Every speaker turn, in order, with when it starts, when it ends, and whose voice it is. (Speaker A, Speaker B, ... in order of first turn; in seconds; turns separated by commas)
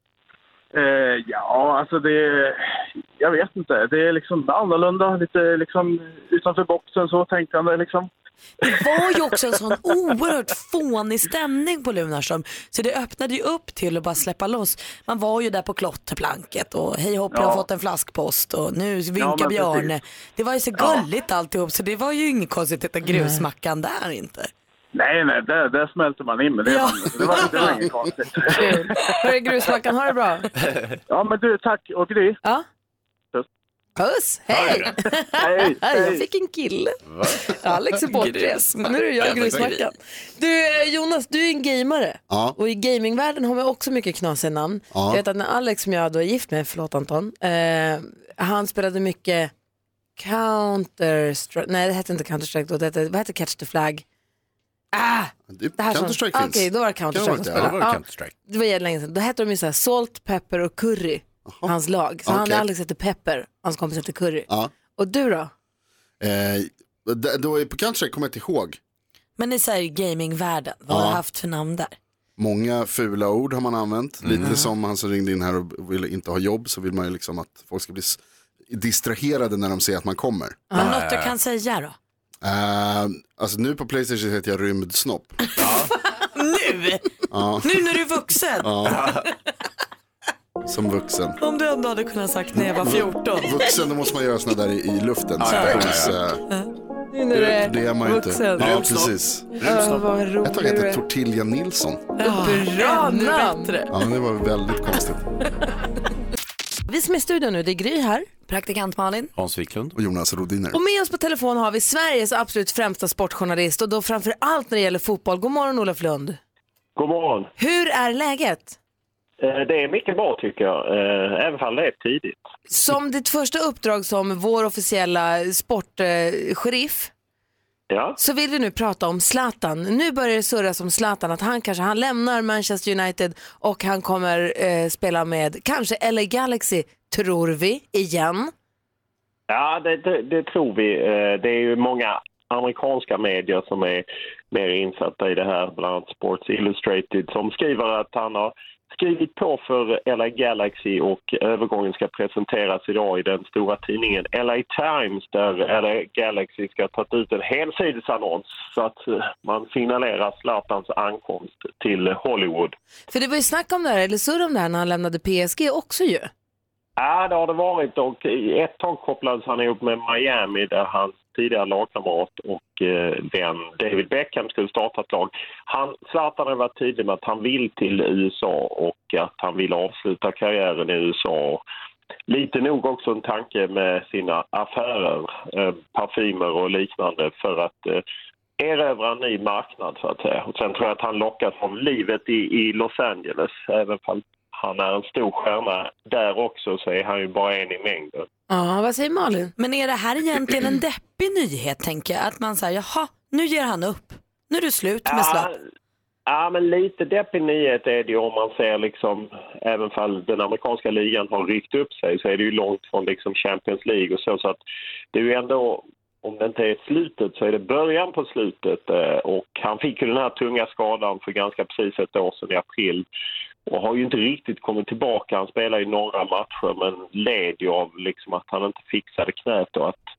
Speaker A: 0.7-2.6, Speaker A: 3.2-8.1, Speaker B: 8.6-24.5, Speaker A: 17.3-17.7, Speaker A: 19.2-19.9, Speaker C: 23.1-23.4, Speaker A: 24.9-29.1, Speaker B: 26.7-27.8, Speaker C: 27.4-27.7, Speaker C: 28.5-30.5, Speaker D: 30.7-31.0, Speaker A: 31.1-32.4, Speaker C: 34.0-49.5, Speaker D: 34.5-34.9, Speaker A: 35.4-36.2, Speaker D: 37.1-37.4, Speaker B: 38.0-39.9, Speaker D: 39.2-39.7, Speaker E: 42.3-42.6, Speaker E: 44.9-45.2, Speaker C: 50.2-54.0, Speaker C: 54.9-65.5, Speaker E: 55.5-57.8, Speaker D: 57.5-58.3, Speaker E: 61.5-61.7, Speaker E: 62.3-62.6, Speaker E: 66.2-68.8, Speaker B: 69.4-71.9, Speaker E: 70.9-71.2, Speaker E: 72.4-80.8, Speaker D: 74.2-74.6, Speaker B: 80.7-82.0, Speaker D: 80.8-81.3, Speaker E: 82.4-85.4, Speaker D: 85.6-85.9, Speaker B: 86.3-89.0, Speaker E: 87.3-87.8, Speaker E: 88.6-89.1, Speaker D: 88.9-89.2, Speaker E: 90.7-91.4, Speaker B: 91.4-93.7, Speaker E: 92.5-96.4, Speaker D: 95.4-96.2, Speaker B: 95.5-95.9, Speaker C: 97.1-98.9, Speaker E: 97.3-99.7, Speaker D: 98.6-99.1, Speaker C: 99.6-101.0, Speaker D: 99.6-100.0, Speaker E: 100.4-102.1, Speaker B: 102.2-103.9, Speaker C: 102.2-103.8, Speaker E: 103.9-105.2, Speaker C: 106.9-108.3, Speaker B: 108.5-109.3, Speaker D: 109.4-110.0, Speaker E: 110.0-110.8, Speaker C: 110.7-116.4, Speaker F: 117.0-117.5, Speaker C: 117.6-118.8, Speaker F: 119.4-122.4, Speaker C: 122.7-127.1, Speaker F: 127.9-128.2, Speaker C: 128.2-138.5, Speaker F: 139.5-162.8, Speaker C: 163.1-166.3, Speaker F: 167.0-181.6, Speaker F: 182.3-188.0, Speaker F: 188.6-198.3, Speaker C: 198.5-199.5, Speaker B: 199.6-205.5, Speaker F: 205.1-205.6, Speaker F: 206.3-214.6, Speaker F: 215.1-223.1, Speaker F: 223.7-230.1